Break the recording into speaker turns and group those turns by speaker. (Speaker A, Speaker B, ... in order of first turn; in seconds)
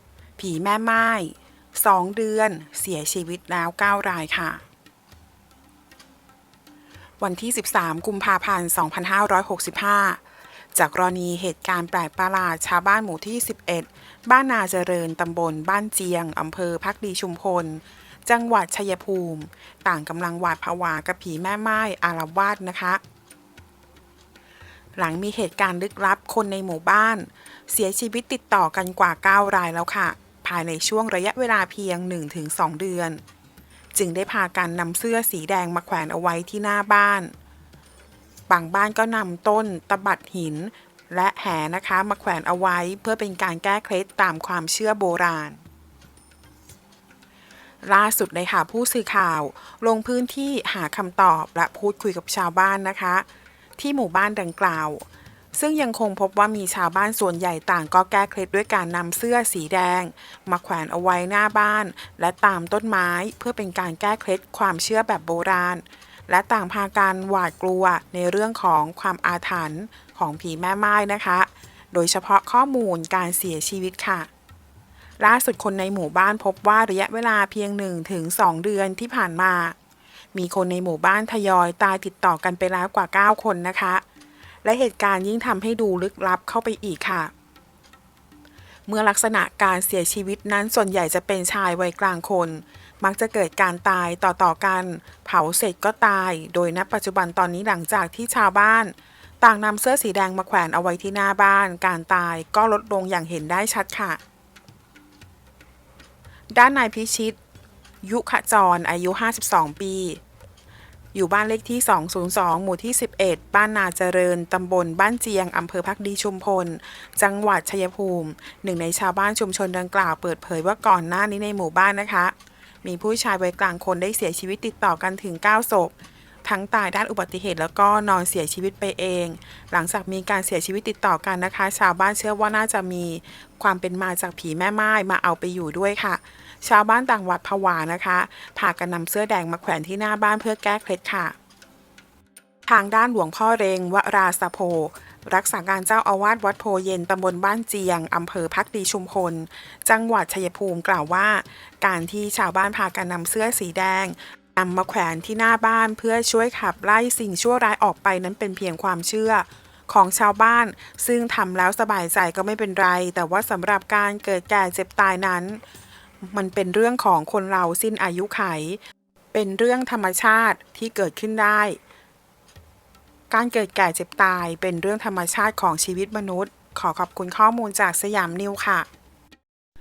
Speaker A: 0.4-4.6, 7.2-10.2, 10.7-23.0, 25.0-33.2, 33.9-37.3, 38.5-45.6, 47.8-53.2, 53.8-74.3, 75.2-79.8, 80.3-84.0, 84.6-87.3, 88.9-104.2, 106.5-107.4, 108.0-110.2, 111.1-125.9, 126.4-141.3, 142.7-165.6, 166.2-168.8, 169.3-171.8, 173.3-178.9